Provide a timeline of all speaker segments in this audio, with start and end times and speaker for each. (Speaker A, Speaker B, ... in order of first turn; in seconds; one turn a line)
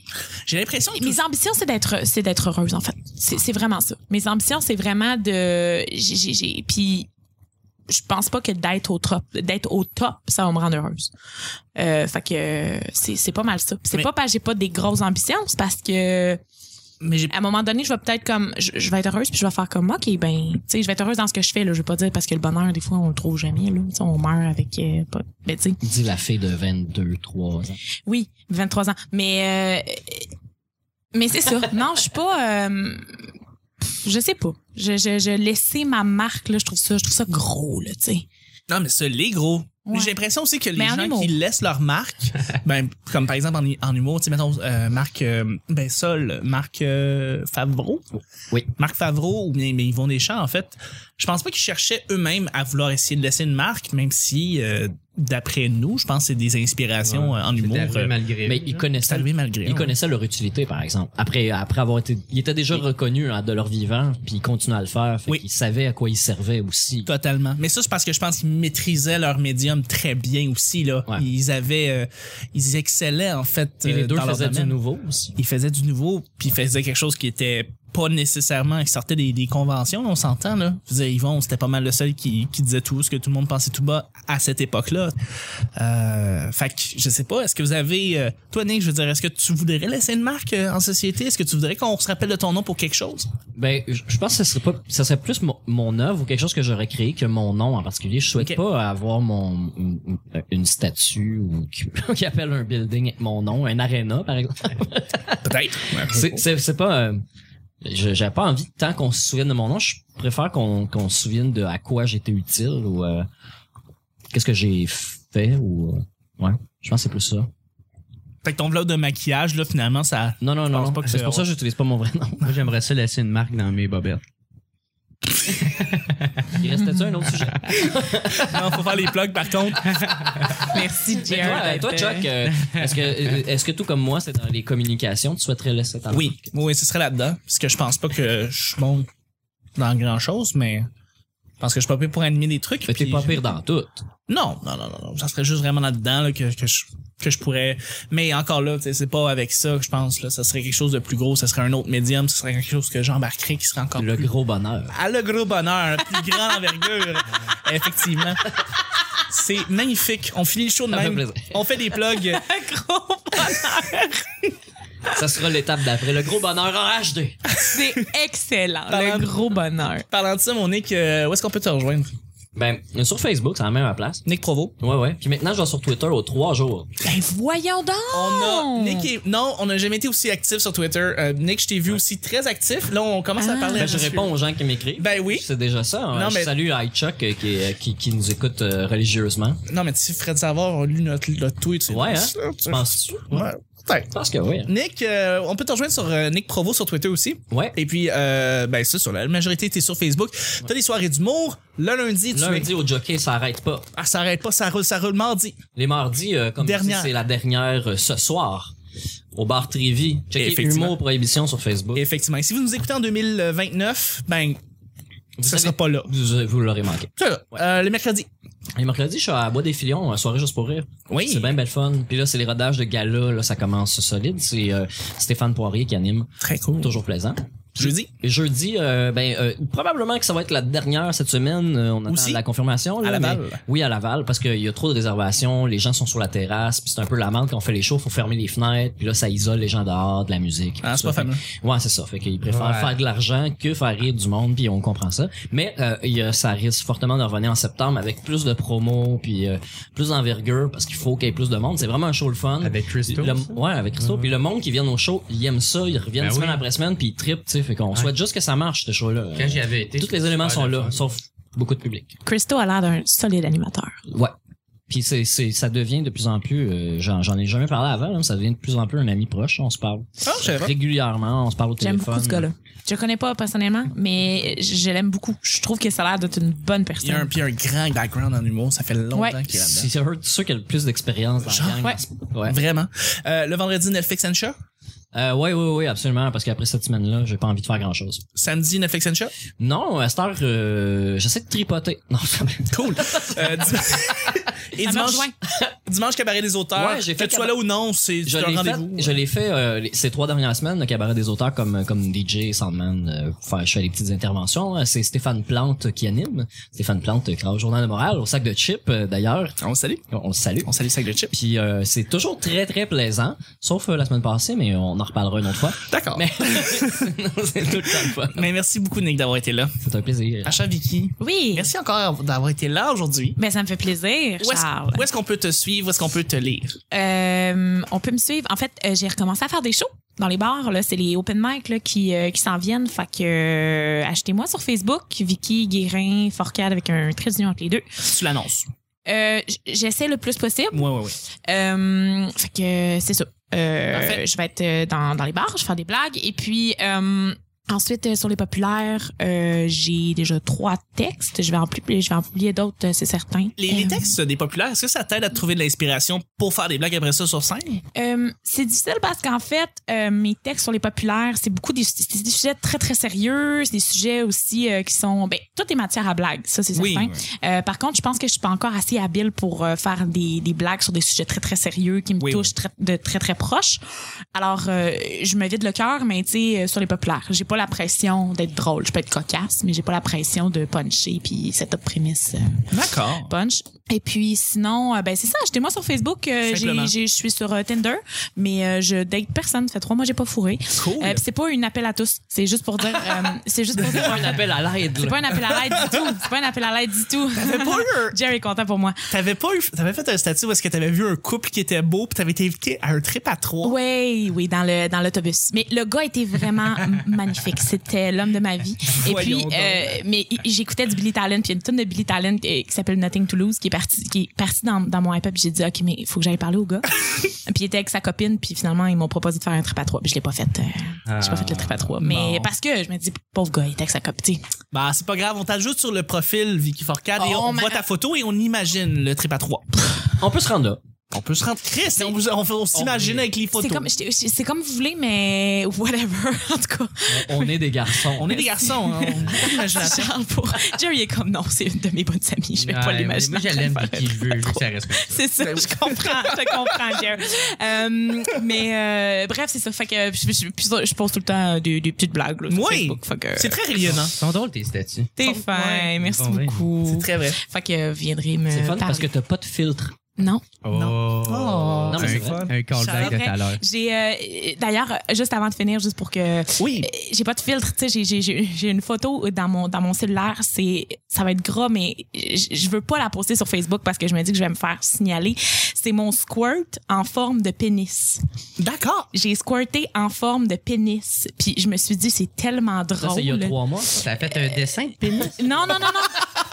Speaker A: 0.5-1.2
Speaker B: 0.9-7.1
Speaker B: 7.9-11.1
Speaker B: 11.8-16.4
Speaker A: 17.0-17.3
Speaker B: 17.3-25.8
Speaker C: 25.8-27.8
Speaker B: 28.1-30.3
Speaker B: 31.1-33.3
Speaker B: 34.0-38.2
Speaker A: 38.7-48.0
Speaker B: 39.9-40.2
Speaker B: 40.7-41.3
Speaker A: 48.8-58.1
Speaker D: 57.0-58.9
Speaker C: 58.4-67.1
Speaker A: 59.0-59.9
Speaker A: 67.0-74.7
Speaker C: 73.8-75.3
Speaker A: 75.3-85.1
Speaker A: 85.8-93.3
Speaker C: 93.5-107.2
Speaker A: 105.4-106.4
Speaker C: 107.8-113.3
Speaker C: 114.3-117.5
Speaker A: 118.4-121.5
Speaker C: 120.4-122.5
Speaker D: 122.4-124.2
Speaker D: 125.7-126.3
Speaker C: 126.5-128.7
Speaker A: 128.4-130.0
Speaker D: 130.0-130.5
Speaker B: 130.7-132.3
Speaker C: 131.2-136.5
Speaker D: 132.5-133.1
Speaker A: 136.1-139.1
Speaker A: 139.8-140.9
Speaker A: 141.6-143.4
Speaker C: 142.9-144.0
Speaker A: 144.3-154.3
Speaker C: 153.9-154.9
Speaker A: 154.9-158.5
Speaker A: 159.3-162.4
Speaker C: 160.9-161.6
Speaker B: 162.1-164.2
Speaker C: 165.1-167.4
Speaker B: 167.6-170.0
Speaker A: 168.9-169.3
Speaker A: 170.1-172.1
Speaker C: 172.5-174.2
Speaker A: 174.2-174.7
Speaker C: 174.8-176.9
Speaker B: 177.0-179.1
Speaker A: 178.1-184.3
Speaker B: 183.4-184.1
Speaker C: 183.7-189.6
Speaker A: 185.0-185.4
Speaker A: 186.1-186.5
Speaker A: 189.7-194.1
Speaker C: 191.9-193.5
Speaker C: 194.1-194.7
Speaker A: 194.7-202.7
Speaker C: 197.5-197.8
Speaker C: 202.3-203.9
Speaker A: 203.9-205.6
Speaker C: 205.7-208.7
Speaker A: 206.6-207.1
Speaker C: 209.3-212.0
Speaker A: 210.3-211.0
Speaker A: 211.9-214.6
Speaker C: 215.4-217.6
Speaker A: 215.4-216.1
Speaker A: 217.2-218.3
Speaker C: 218.8-262.1
Speaker A: 221.1-221.6
Speaker A: 226.4-226.9
Speaker A: 227.8-228.1
Speaker A: 232.1-232.4
Speaker A: 233.0-233.6
Speaker A: 240.8-241.4
Speaker D: 242.5-242.9
Speaker D: 252.6-254.3
Speaker D: 256.2-256.6
Speaker D: 259.4-261.0
Speaker B: 262.2-264.0
Speaker C: 264.1-264.3
Speaker C: 264.9-272.4
Speaker A: 270.2-270.7
Speaker B: 271.8-277.3
Speaker A: 277.0-279.9
Speaker B: 279.1-279.4
Speaker C: 279.5-282.6
Speaker A: 281.5-281.9
Speaker A: 282.4-284.5
Speaker C: 285.1-288.2
Speaker A: 288.4-289.3
Speaker C: 289.6-294.4
Speaker A: 292.7-295.3
Speaker B: 294.8-295.3
Speaker A: 295.9-299.1
Speaker C: 296.7-297.6
Speaker C: 298.2-309.6
Speaker A: 309.6-310.0
Speaker C: 310.1-310.7
Speaker A: 310.6-311.3
Speaker C: 311.3-318.5
Speaker A: 315.9-317.1
Speaker A: 317.9-319.7
Speaker C: 319.8-320.6
Speaker A: 320.4-323.4
Speaker B: 321.2-321.7
Speaker B: 323.4-325.1
Speaker A: 324.4-326.8
Speaker B: 326.9-338.1
Speaker A: 338.0-338.7
Speaker B: 339.1-354.1
Speaker A: 340.7-341.1
Speaker A: 343.9-344.2
Speaker A: 353.6-357.8
Speaker B: 357.9-373.8
Speaker A: 366.7-367.2
Speaker A: 372.2-372.5
Speaker B: 374.3-382.7
Speaker A: 382.7-383.3
Speaker B: 383.2-394.4
Speaker A: 386.4-386.9
Speaker A: 390.8-391.2
Speaker C: 393.8-395.4
Speaker B: 394.9-399.1
Speaker A: 395.7-396.0
Speaker A: 397.4-398.1
Speaker A: 399.1-403.7
Speaker B: 403.6-416.9
Speaker A: 408.9-410.0
Speaker B: 417.4-424.4
Speaker D: 421.1-421.9
Speaker A: 422.0-422.5
Speaker A: 424.7-429.8
Speaker B: 427.2-427.8
Speaker C: 430.2-430.8
Speaker A: 431.1-433.9
Speaker C: 432.7-433.2
Speaker B: 433.5-453.6
Speaker C: 437.1-438.4
Speaker A: 438.2-440.1
Speaker D: 442.6-445.2
Speaker A: 445.4-446.9
Speaker A: 452.5-454.1
Speaker D: 453.8-455.1
Speaker B: 455.2-459.1
Speaker A: 455.2-455.9
Speaker D: 456.0-456.7
Speaker A: 456.8-457.4
Speaker C: 458.5-459.9
Speaker B: 460.2-460.4
Speaker D: 460.6-463.6
Speaker A: 460.7-463.2
Speaker C: 461.9-462.5
Speaker B: 462.9-478.2
Speaker A: 466.6-466.9
Speaker A: 478.6-479.1
Speaker B: 479.1-486.4
Speaker C: 483.0-483.9
Speaker D: 484.0-485.6